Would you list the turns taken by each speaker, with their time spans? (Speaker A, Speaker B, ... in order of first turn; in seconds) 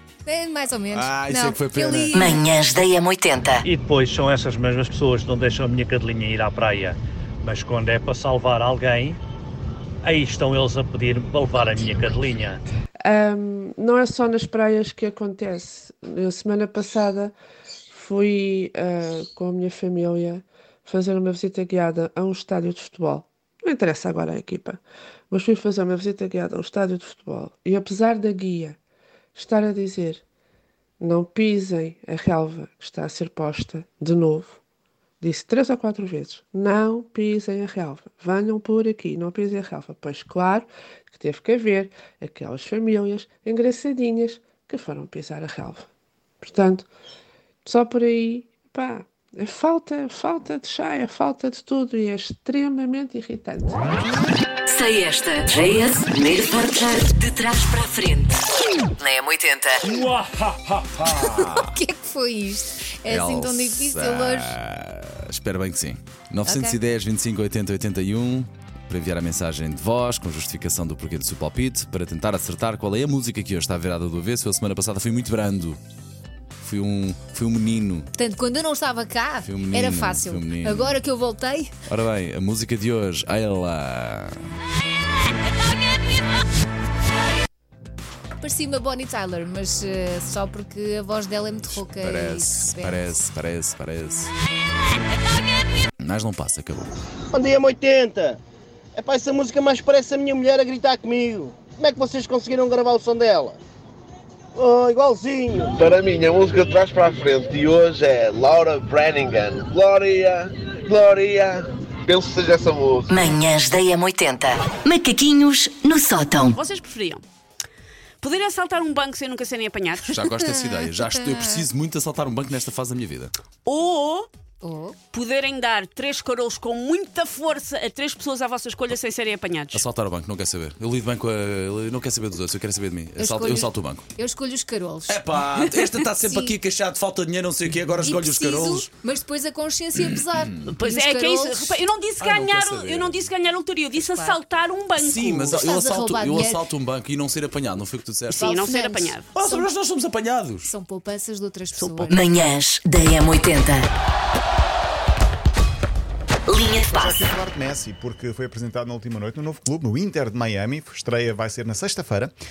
Speaker A: 0.2-2.5, 61.1-64.5, 66.5-66.8, 78.1-81.7, 88.4-93.1, 121.0-121.4, 124.6-125.0, 133.2-135.3, 136.2-136.6, 138.0-141.8, 144.0-144.4, 145.5-146.7, 148.3-149.7, 150.6-152.2
Speaker B: 0.9-2.1, 61.1-61.7, 63.0-75.8, 76.6-78.1, 79.4-81.0, 81.9-84.4, 91.7-94.3, 96.0-96.9, 120.0-123.3, 129.7-134.1, 135.1-138.9, 139.9-140.7, 142.2-143.3, 144.9-148.4, 149.3-150.7
Speaker C: 2.1-3.6, 54.7-58.4, 59.0-59.8, 113.1-116.6, 152.1-153.9, 156.5-157.2
Speaker D: 3.6-9.2, 10.0-12.6, 59.8-60.9
Speaker E: 13.0-17.3, 17.9-28.8, 29.3-30.2, 31.0-34.6, 35.2-45.9, 46.4-46.9, 47.6-53.9
Speaker F: 97.3-98.4, 98.9-103.6, 104.5-105.8
Speaker G: 105.7-113.3
Speaker H: 116.3-117.2, 118.2-120.2, 123.7-124.3, 125.1-129.8, 140.7-145.5, 148.4-149.3, 151.7-152.3
Speaker I: 156.9-162.3